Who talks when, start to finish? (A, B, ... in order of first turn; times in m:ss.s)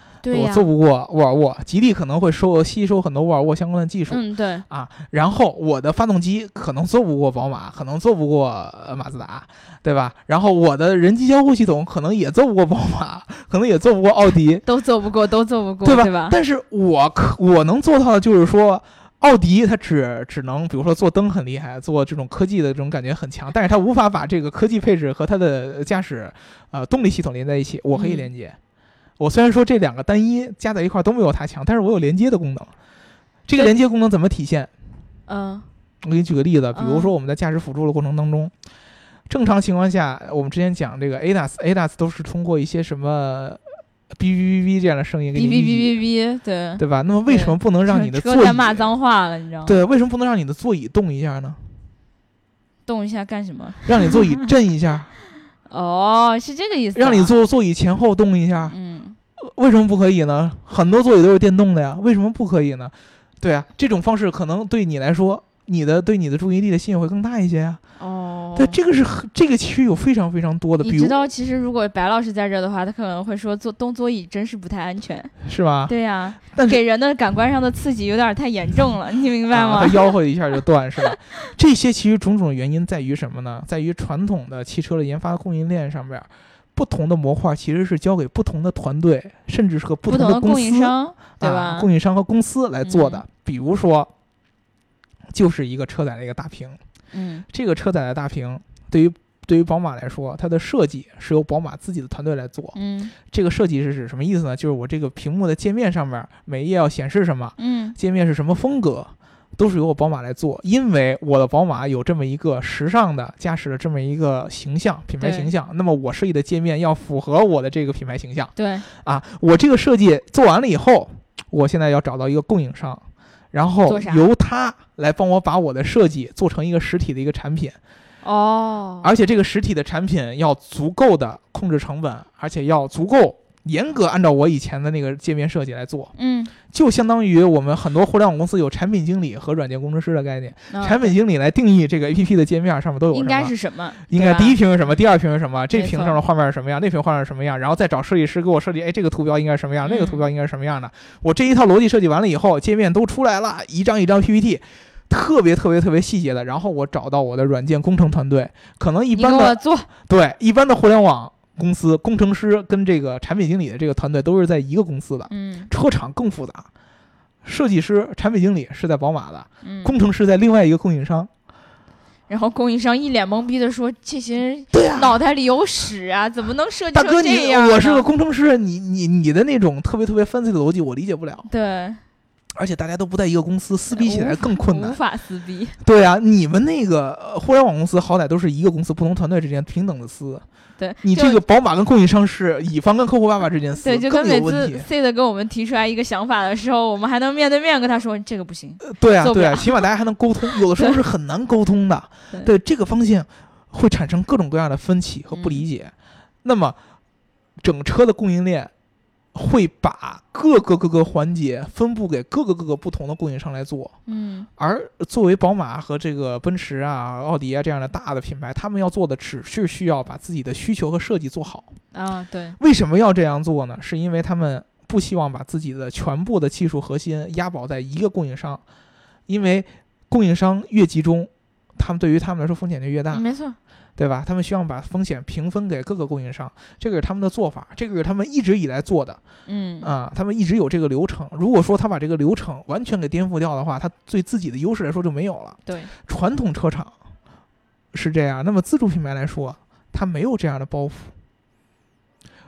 0:00.2-0:00.7 A
0:00.3-0:14.6 B
0:04.1-0:04.6 A
0:14.6-0:16.4 A
0:15.8-0:28.6 B
0:27.9-0:28.3 A
0:29.2-0:32.7 B
0:33.5-0:34.7 B
0:35.3-0:35.7 A
0:36.0-0:38.5 B
0:36.7-0:37.1 A
0:39.3-0:46.0 B
0:45.4-0:49.8 A
0:46.8-0:48.9 B
0:49.6-0:51.6 B
0:52.9-0:54.4 A
0:53.8-0:55.1 B
0:55.7-0:57.4 A
0:57.0-0:58.8 B
0:58.7-0:59.2 A
0:59.4-1:07.8 B
1:08.0-1:08.8 A
1:08.6-1:11.2 B
1:10.8-1:15.3 A
1:15.4-1:16.8 B
1:15.9-1:20.1 A
1:19.5-1:34.1 B
1:30.1-1:31.9 A
1:32.8-1:33.2 A
1:35.3-1:36.8 B
1:37.1-1:37.4 A
1:37.5-2:07.8 B
1:42.7-1:43.1 A
1:47.6-1:48.0 A
1:55.2-1:55.5 A
1:58.6-1:58.9 A
2:03.9-2:04.3 A
2:08.2-2:09.1 A
2:09.0-2:16.1 B
2:16.2-2:16.6 A
2:16.7-2:46.7 B
2:20.7-2:21.1 A
2:23.1-2:24.6 A
2:25.7-2:26.2 A
2:29.8-2:30.2 A
2:39.2-2:39.9 A
2:45.3-2:45.7 A
2:47.4-2:51.3 B
2:49.6-2:50.0 A
2:52.3-2:58.0 A
2:54.7-2:55.1 B
2:56.9-3:01.5 B
3:01.5-3:02.0 A
3:02.6-3:05.0 B
3:03.9-3:05.8 A
3:05.8-3:10.4 B
3:10.8-3:11.4 A
3:11.0-3:14.9 B
3:13.8-3:19.8 A
3:18.8-3:25.9 B
3:25.3-3:25.6 A
3:26.4-3:26.8 B
3:27.6-3:28.7 B
3:29.3-3:34.0 B
3:34.1-3:34.5 A
3:34.6-3:41.7 B
3:41.9-3:42.6 A
3:42.6-3:48.6 B
3:49.3-3:53.2 B
3:53.1-3:53.6 A
3:54.0-3:59.2 B
3:59.5-3:59.9 A
3:59.8-4:06.9 B
4:05.7-4:05.9 A
4:07.9-4:11.1 B